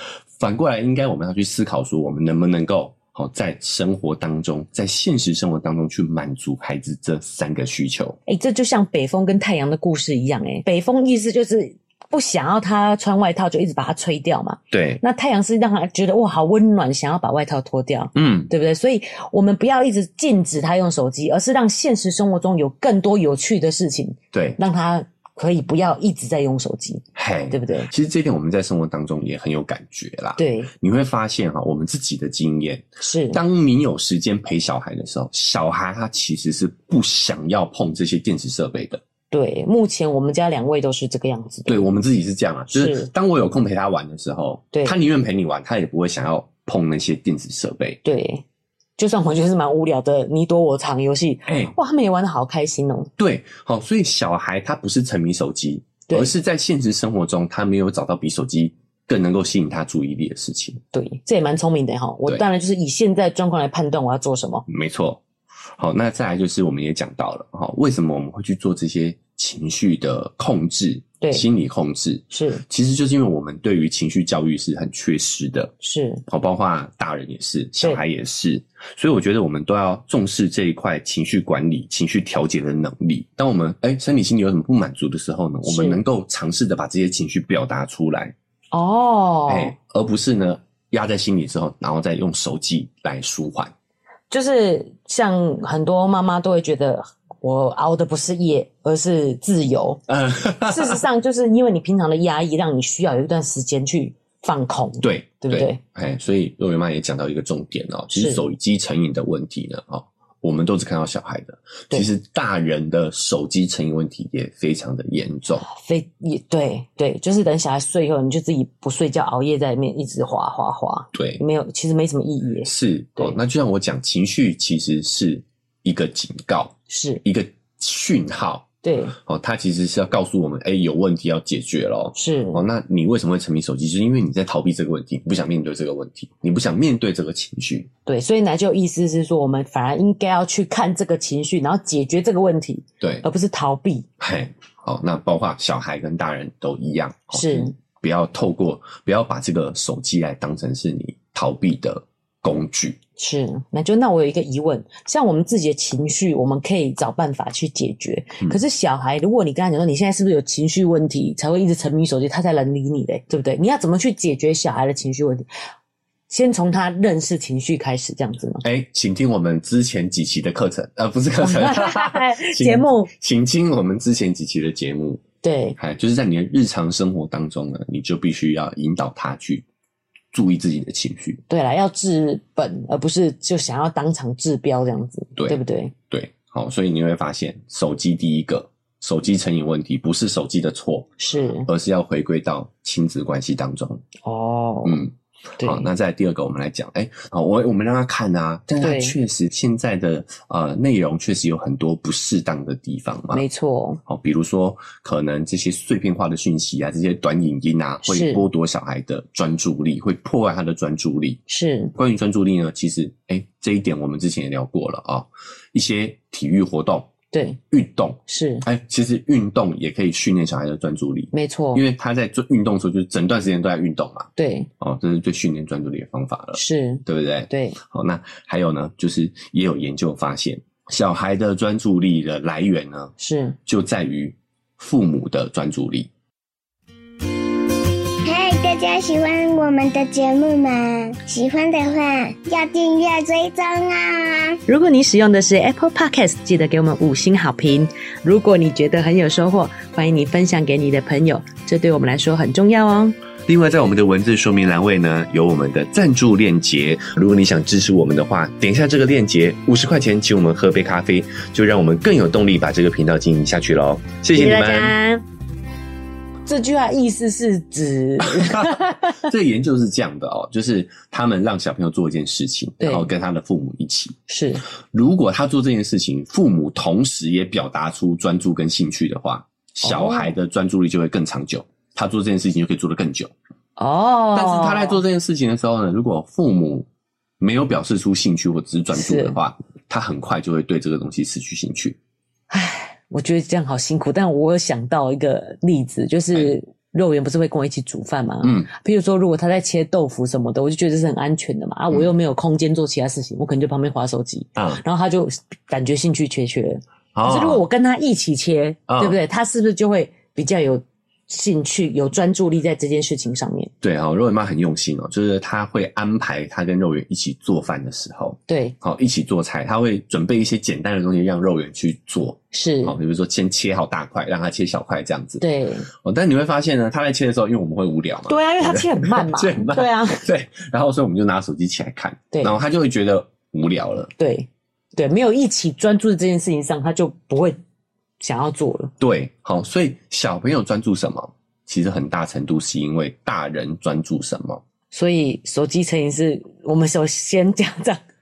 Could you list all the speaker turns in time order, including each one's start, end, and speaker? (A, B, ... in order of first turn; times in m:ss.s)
0:00.4-0:08.2 A
0:08.3-0:27.9 B
0:14.7-0:15.0 A
0:18.1-0:18.5 A
0:24.3-0:24.6 A
0:27.1-0:39.0 A
0:30.4-0:30.7 B
0:33.0-0:33.4 B
0:39.3-0:41.8 B
0:41.6-0:48.0 A
0:42.7-0:43.1 B
0:48.0-0:48.4 B
0:49.0-0:53.1 B
0:51.5-0:51.7 A
0:53.2-1:00.8 A
1:00.9-1:04.6 B
1:04.7-1:05.2 A
1:05.8-1:15.7 A
1:11.2-1:11.4 B
1:12.3-1:12.6 B
1:15.8-1:16.2 B
1:16.3-1:28.3 A
1:25.6-1:26.0 B
1:28.7-1:29.7 B
1:29.5-1:33.7 A
1:34.3-1:40.0 B
1:40.1-1:41.0 A
1:40.6-1:45.8 B
1:45.0-1:55.6 A
1:48.1-1:48.4 B
1:55.6-2:03.4 B
2:01.1-2:01.4 A
2:02.6-2:17.9 A
2:06.9-2:07.2 B
2:08.8-2:09.2 B
2:12.1-2:12.6 B
2:18.0-2:24.1 B
2:24.2-2:33.0 A
2:27.3-2:27.7 B
2:33.2-2:45.4 B
2:46.3-2:48.6 B
2:48.6-2:55.2 A
2:51.4-2:53.1 B
2:55.4-2:55.8 B
2:55.8-2:59.6 A
3:00.3-3:01.4 A
3:01.5-3:05.9 B
3:05.4-3:11.1 A
3:11.2-3:11.7 B
3:11.6-3:14.0 A
3:14.2-3:15.0 B
3:14.8-3:23.4 A
3:15.6-3:15.9 B
3:18.8-3:19.2 B
3:23.3-3:24.0 B
3:24.1-3:31.4 A
3:28.0-3:28.4 B
3:31.5-3:31.9 B
3:31.9-3:37.1 A
3:37.3-3:37.6 B
3:37.7-3:53.1 A
3:38.3-3:38.6 B
3:41.3-3:41.8 B
3:44.4-3:44.7 B
3:46.5-3:47.8 B
3:53.2-3:53.6 B
3:53.6-3:56.1 A
3:58.2-4:04.6 C
4:04.7-4:13.2 B
4:13.4-4:24.9 A
4:24.3-4:25.2 B
4:26.4-4:29.3 B
4:28.2-4:34.2 A
4:32.8-4:33.1 B
4:34.3-4:34.6 B
4:34.9-4:43.3 A
4:39.8-4:40.3 B
4:43.8-4:45.0 B
4:44.3-4:46.9 A
4:47.4-4:52.0 A
4:48.9-4:49.4 B
4:52.5-5:13.7 B
4:58.4-4:58.7 A
5:04.6-5:04.8 A
5:07.1-5:07.6 A
5:08.9-5:09.2 A
5:13.8-5:34.1 A
5:18.5-5:18.8 B
5:22.5-5:23.0 B
5:25.4-5:25.9 B
5:28.3-5:30.2 B
5:34.2-5:37.6 B
5:38.2-5:38.9 B
5:39.0-5:44.6 A
5:44.9-5:48.0 B